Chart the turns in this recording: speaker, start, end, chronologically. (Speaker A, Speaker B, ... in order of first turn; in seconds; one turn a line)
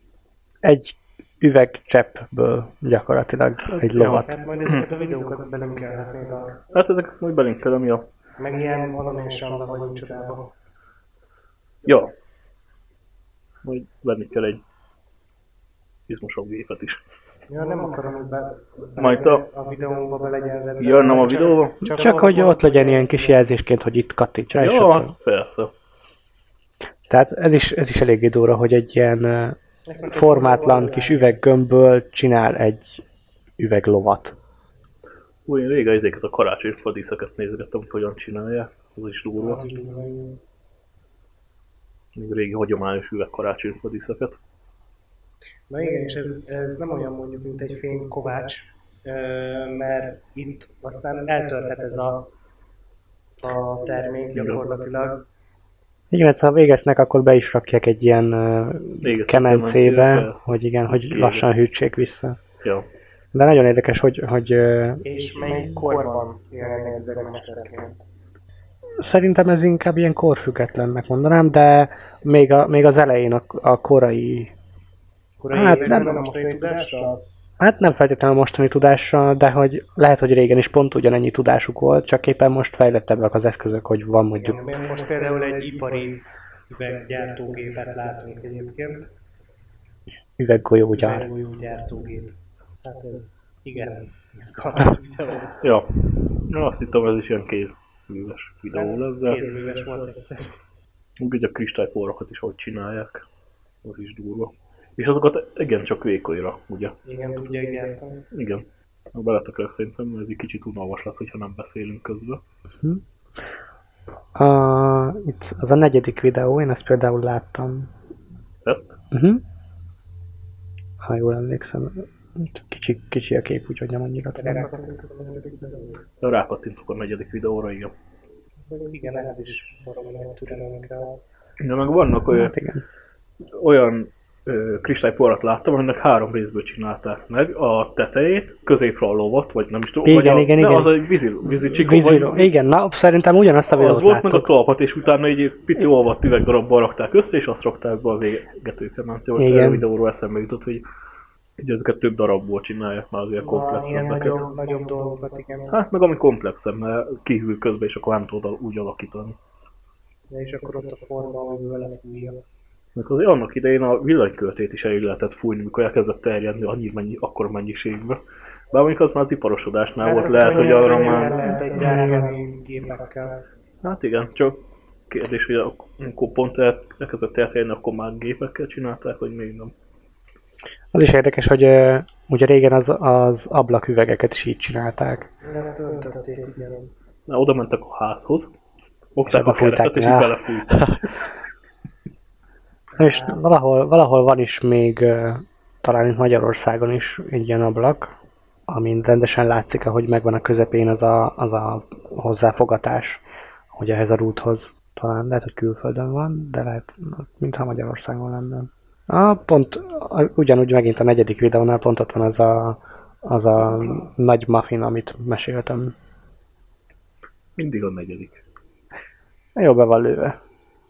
Speaker A: 0.6-4.3
Speaker B: 3.9-4.3
Speaker C: 4.2-6.6
Speaker B: 6.7-8.1
Speaker C: 8.4-10.5
Speaker B: 11.8-12.1
Speaker B: 13.6-14.6
Speaker B: 16.1-17.0
Speaker C: 17.5-23.4
Speaker B: 19.0-19.4
Speaker B: 20.8-21.8
Speaker A: 21.8-25.1
Speaker B: 24.6-25.7
Speaker A: 27.1-33.0
Speaker C: 29.9-31.4
Speaker A: 33.6-34.4
Speaker B: 35.5-39.7
Speaker C: 39.4-40.4
Speaker B: 42.1-44.4
Speaker C: 45.7-52.3
Speaker C: 53.4-55.2
Speaker A: 56.1-62.4
Speaker B: 59.0-60.4
Speaker B: 60.9-61.5
Speaker A: 63.3-65.0
Speaker C: 65.0-68.0
Speaker A: 69.0-74.5
Speaker C: 75.4-77.2
Speaker A: 75.5-76.3
Speaker A: 77.6-84.6
Speaker C: 84.4-89.1
Speaker A: 90.4-91.3
Speaker C: 90.9-95.6
Speaker B: 95.6-95.9
Speaker B: 96.5-99.5
Speaker C: 98.7-100.5
Speaker B: 101.2-103.2
Speaker B: 103.8-107.0
Speaker C: 107.1-108.2
Speaker B: 108.3-112.4
Speaker A: 114.3-117.9
Speaker B: 118.7-119.0
Speaker A: 119.1-119.4
Speaker A: 121.0-124.7
Speaker C: 124.4-126.0
Speaker B: 126.2-127.9
Speaker C: 128.7-131.2
Speaker B: 131.6-132.6
Speaker A: 132.3-132.8
Speaker B: 133.5-142.5
Speaker A: 140.1-140.9
Speaker A: 141.4-144.5
Speaker B: 143.7-150.9
Speaker A: 149.4-149.8
Speaker B: 151.6-154.4
Speaker C: 153.4-155.8
Speaker B: 155.7-159.4
Speaker C: 160.3-162.4
Speaker B: 163.0-168.2
Speaker B: 168.7-171.5
Speaker C: 170.0-173.4
Speaker B: 173.8-179.7
Speaker A: 180.9-185.3
Speaker C: 185.4-186.9
Speaker B: 187.3-188.5
Speaker B: 189.2-191.0
Speaker A: 189.3-191.1
Speaker A: 193.0-198.1
Speaker C: 193.0-193.3
Speaker A: 198.7-203.2
Speaker A: 203.7-215.9
Speaker B: 217.6-218.4
Speaker A: 219.6-220.4